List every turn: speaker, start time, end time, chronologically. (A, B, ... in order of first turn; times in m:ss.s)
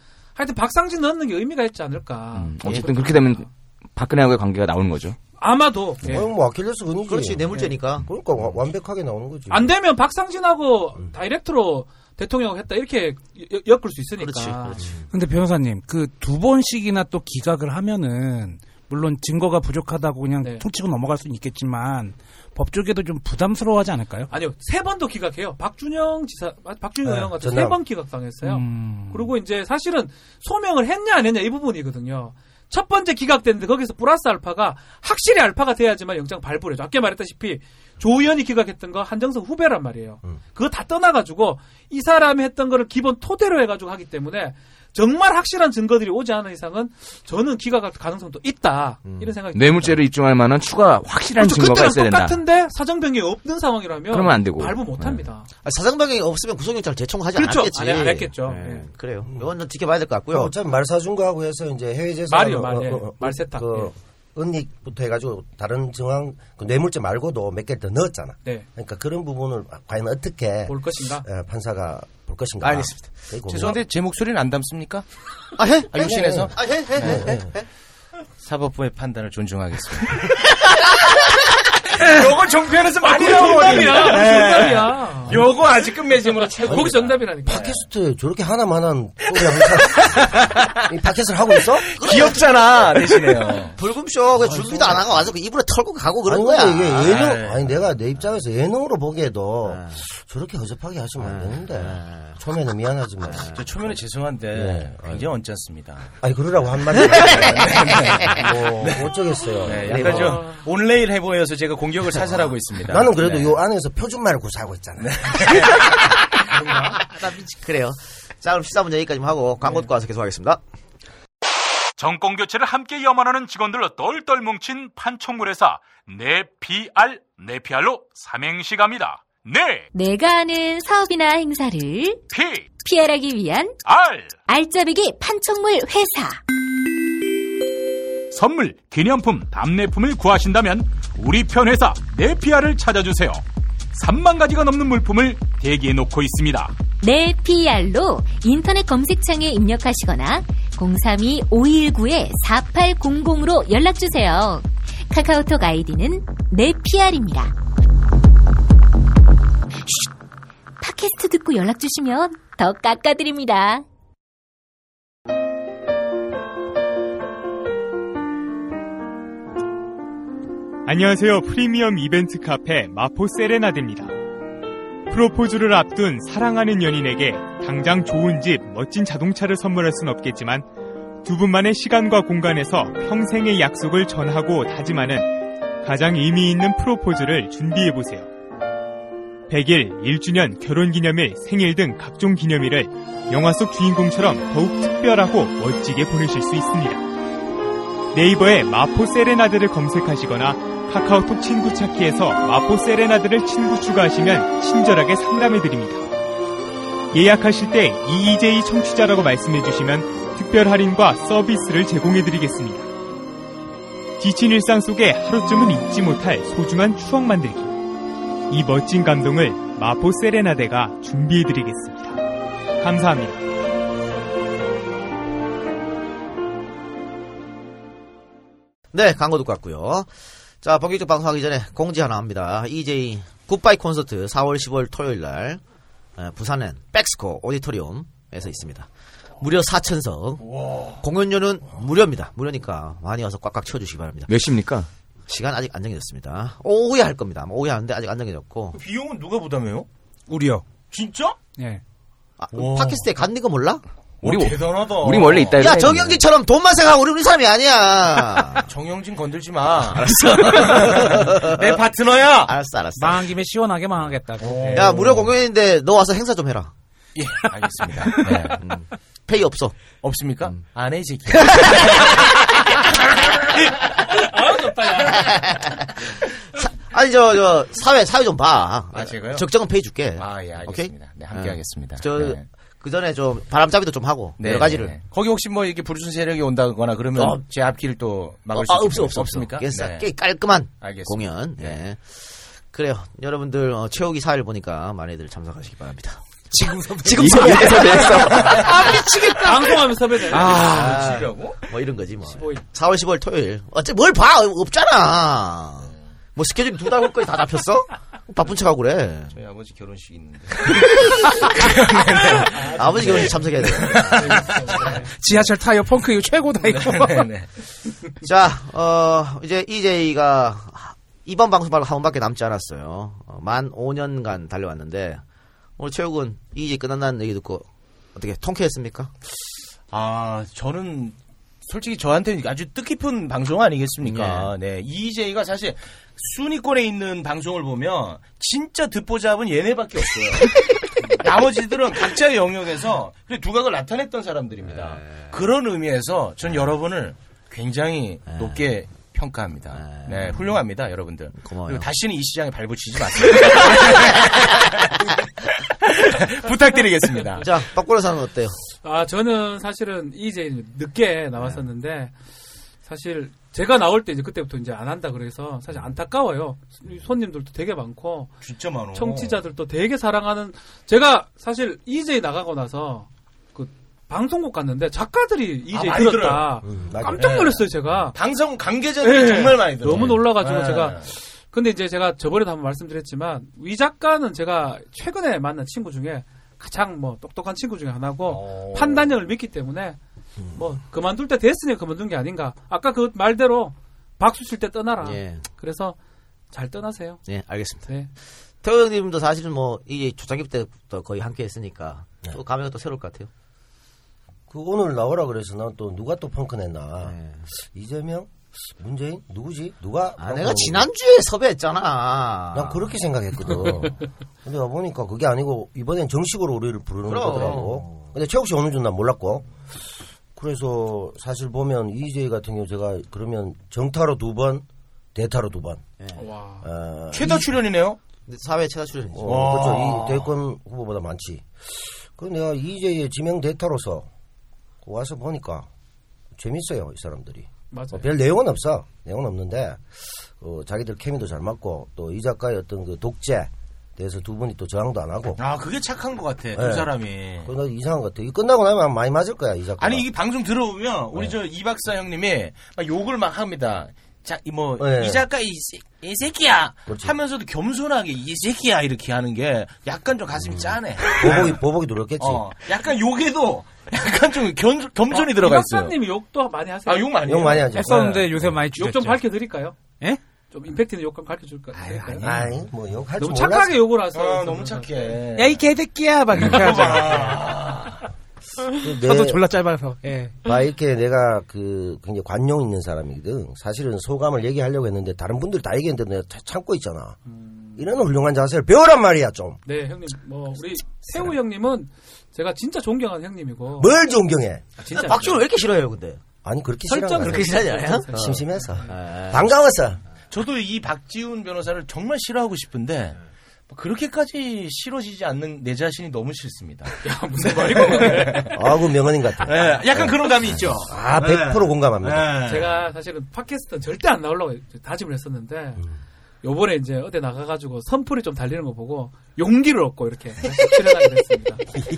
0:00.4-0:03.4 A
0:02.3-0:05.2 B
0:05.4-0:06.3 A
0:06.0-0:09.7 C
0:07.1-0:08.1 D
0:09.5-0:14.8 A
0:14.2-0:15.0 D
0:15.1-0:24.3 E
0:24.3-0:50.0 A
0:27.0-0:27.8 C
0:28.4-0:29.3 E
0:49.0-0:49.3 D
0:49.5-0:52.4 B
0:51.4-0:55.5 A
0:54.1-0:55.2 B
0:55.6-1:00.5 D
0:57.3-0:58.8 A
1:00.3-1:13.8 C
1:02.3-1:03.9 A
1:10.7-1:11.2 A
1:12.6-1:13.2 D
1:13.5-1:15.0 F
1:15.6-1:17.7 D
1:15.9-1:17.3 F
1:16.0-1:17.5 C
1:18.4-1:20.4 F
1:22.0-1:27.7 F
1:23.0-1:25.4 A
1:26.6-1:27.8 A
1:26.7-1:31.9 C
1:32.0-1:33.7 F
1:32.0-1:32.8 D
1:33.8-1:37.2 D
1:34.5-1:35.0 C
1:36.2-1:43.6 C
1:37.0-1:37.6 F
1:39.7-1:40.0 D
1:41.2-1:42.4 D
1:43.3-1:43.6 D
1:43.4-1:46.1 F
1:44.5-1:45.3 C
1:46.2-1:50.4 C
1:47.0-1:48.4 D
1:47.2-1:49.1 F
1:49.6-1:53.5 F
1:52.8-1:55.6 C
1:55.0-1:57.0 F
1:57.1-2:00.6 D
2:02.0-2:09.9 G
2:09.9-2:12.2 H
2:12.3-2:12.7 G
2:12.8-2:13.8 H
2:13.8-2:14.4 G
2:14.5-2:16.4 H
2:18.3-2:26.7 G
2:27.0-2:37.5 H
2:40.8-2:43.8 H
2:50.8-2:54.1 I
2:55.1-3:00.6 I
3:01.2-3:08.3 I
3:09.5-3:17.0 I
3:18.1-3:26.1 I
3:27.1-3:32.9 I
3:34.2-3:37.8 I
3:38.5-3:42.2 I
3:42.8-3:43.4 I
3:48.9-3:50.1 D
3:50.6-3:55.6 D
3:56.2-3:58.9 D
3:59.4-4:00.4 D
4:00.4-4:01.0 F
4:01.0-4:04.3 D
4:04.3-4:04.9 B
4:05.3-4:08.8 D
4:08.7-4:09.9 F
4:10.3-4:10.6 E
4:10.9-4:11.4 F
4:12.4-4:13.8 D
4:12.5-4:13.1 F
4:14.2-4:15.6 F
4:14.2-4:16.2 B
4:15.6-4:18.7 D
4:18.7-4:22.5 F
4:19.8-4:21.8 D
4:22.5-4:23.3 D
4:23.0-4:25.2 E
4:24.4-4:25.3 F
4:24.6-4:26.7 D
4:27.1-4:28.6 F
4:28.5-4:29.8 D
4:30.0-4:32.4 F
4:31.4-4:31.8 D
4:34.2-4:35.4 A
4:35.0-4:45.0 D
4:38.9-4:39.5 F
4:40.2-4:42.4 F
4:44.4-4:50.1 F
4:47.2-4:47.4 D
4:48.5-4:58.7 D
4:50.8-4:51.8 F
4:56.5-4:59.5 E
4:57.1-4:58.5 B
4:57.7-4:58.9 F
4:58.5-5:00.6 A
5:00.3-5:01.6 F
5:00.4-5:09.3 D
5:02.3-5:02.6 A
5:09.3-5:15.3 F
5:10.6-5:11.5 D
5:12.3-5:14.3 D
5:14.2-5:15.0 A
5:15.2-5:17.3 E
5:16.6-5:17.5 F
5:18.2-5:25.2 D
5:25.8-5:29.1 D
5:29.9-5:40.6 F
5:34.0-5:34.5 D
5:41.2-5:55.0 F
5:44.7-5:45.2 D
5:48.3-5:48.6 D
5:49.8-5:50.5 D
5:51.4-5:51.9 D
5:55.8-5:57.4 F
5:57.4-5:58.6 D
5:58.8-6:02.1 A
6:02.8-6:08.3 A
6:08.4-6:09.4 F
6:08.9-6:18.2 A
6:15.7-6:16.5 F
6:16.6-6:17.5 C
6:17.2-6:17.6 F
6:18.1-6:21.1 F
6:19.0-6:30.0 A
6:28.2-6:29.1 F
6:30.5-6:36.0 A
6:35.0-6:35.4 D
6:36.5-6:37.2 A
6:37.2-6:37.9 D
6:38.6-6:43.3 D
6:44.5-6:50.9 C
6:47.0-6:47.4 D
6:50.2-6:52.8 D
6:52.5-6:59.4 C
6:57.0-6:58.0 D
7:00.4-7:05.8 C
7:06.2-7:06.6 A
7:06.6-7:07.5 C
7:07.1-7:08.0 F
7:08.3-7:10.0 D
7:09.1-7:14.1 C
7:09.2-7:10.2 F
7:14.8-7:15.7 C
7:16.4-7:19.8 C
7:17.7-7:18.1 A
7:20.4-7:25.4 C
7:25.4-7:27.5 F
7:26.5-7:26.9 C
7:27.4-7:30.0 C
7:29.8-7:41.6 F
7:34.8-7:35.2 C
7:36.9-7:37.1 C
7:40.5-7:42.4 C
7:42.2-7:46.0 F
7:45.1-7:47.4 A
7:46.8-7:48.3 F
7:47.2-7:48.4 C
7:47.7-7:49.2 E
7:48.7-7:49.8 A
7:50.5-7:52.2 A
7:52.0-7:52.3 E
7:52.2-7:53.8 C
7:53.2-7:55.2 A
7:54.1-7:55.6 F
7:55.4-7:57.4 E
7:56.3-7:58.0 F
7:58.8-7:59.4 C
7:58.8-8:00.4 E
8:00.4-8:07.2 C
8:07.3-8:07.8 A
8:07.8-8:09.6 C
8:09.6-8:13.9 A
8:13.8-8:14.6 C
8:14.8-8:15.4 A
8:14.9-8:16.2 D
8:16.4-8:20.0 C
8:16.9-8:18.9 A
8:17.2-8:19.4 D
8:20.3-8:23.2 F
8:23.7-8:28.6 F
8:27.0-8:28.5 A
8:28.5-8:30.2 C
8:29.4-8:32.8 F
8:30.8-8:32.3 C
8:32.4-8:35.8 A
8:36.4-8:41.6 A